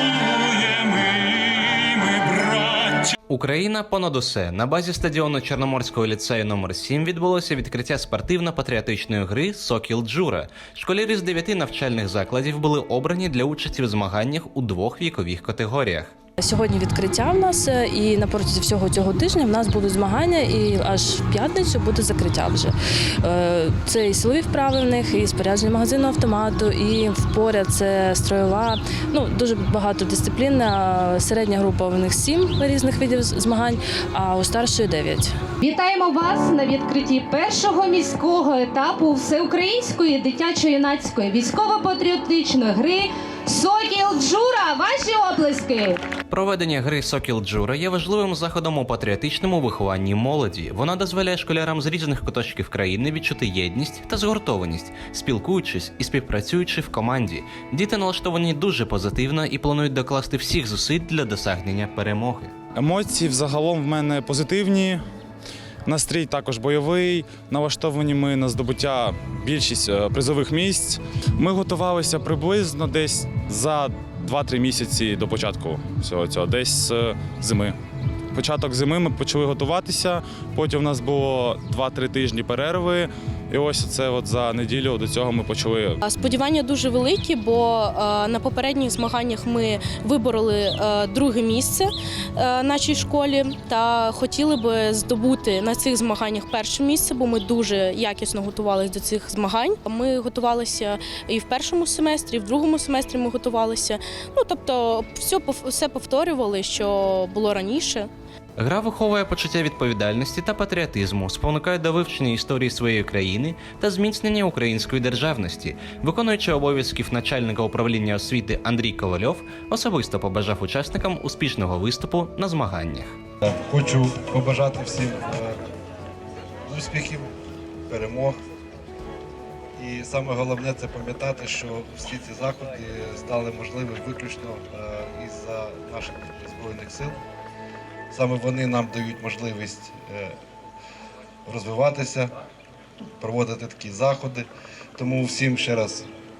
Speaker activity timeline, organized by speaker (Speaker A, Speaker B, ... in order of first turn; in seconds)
Speaker A: 2.1-3.0, 62.7-65.0, 65.8-77.7, 78.3-86.0
Speaker B: 3.3-16.1, 46.3-62.5, 108.6-123.1
Speaker C: 16.4-35.3
Speaker D: 35.6-46.0
Speaker E: 86.0-108.1
Speaker F: 123.4-125.5, 126.7-127.3, 127.9-128.4, 129.8-137.2, 138.1-140.3, 141.5-142.3, 143.2-146.1